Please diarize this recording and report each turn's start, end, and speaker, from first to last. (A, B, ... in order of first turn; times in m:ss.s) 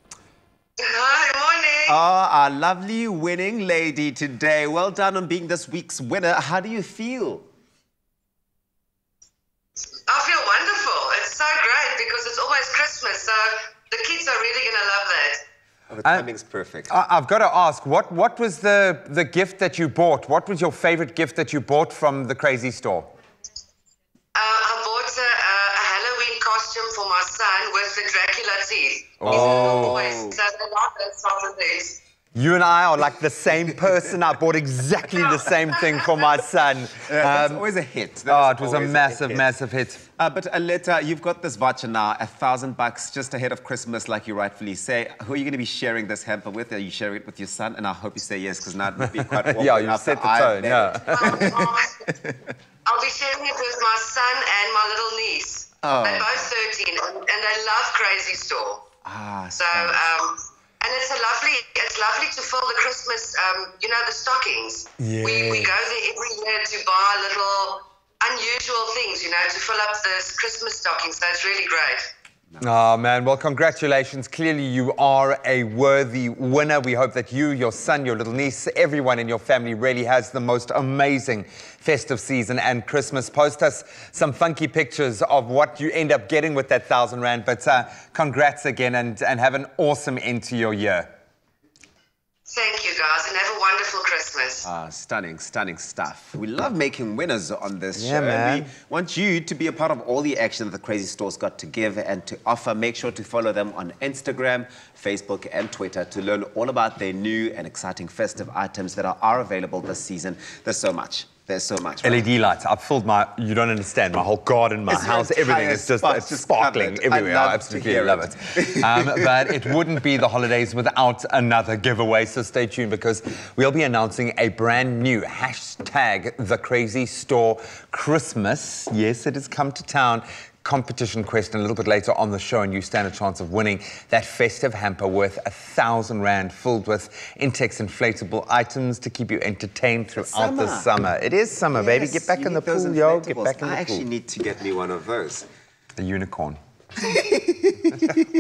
0:00.8-0:02.0 A
0:01.9-0:07.4 B
0:10.1-0:15.4 A
0:15.9-0:16.9 B
0:16.9-0:23.1 C
0:24.4-0:32.0 A
0:29.2-0:30.1 C
0:29.3-0:30.4 B
0:32.4-0:37.6 C
0:37.0-0:39.5 B
0:38.3-0:40.0 C
0:40.2-0:51.7 B
0:49.2-0:51.7 C
0:51.1-0:52.1 A
0:52.9-0:58.8 A
0:55.8-0:56.5 B
0:59.0-1:00.1 B
0:59.6-1:12.1 A
1:05.0-1:05.8 C
1:12.6-1:31.1 C
1:32.5-1:34.7 A
1:34.6-1:52.3 B
1:38.0-1:38.7 C
1:52.0-2:24.1 C
1:54.9-1:59.3 B
2:20.2-2:20.9 B
2:21.7-2:25.5 B
2:26.0-2:26.6 C
2:27.0-2:28.2 B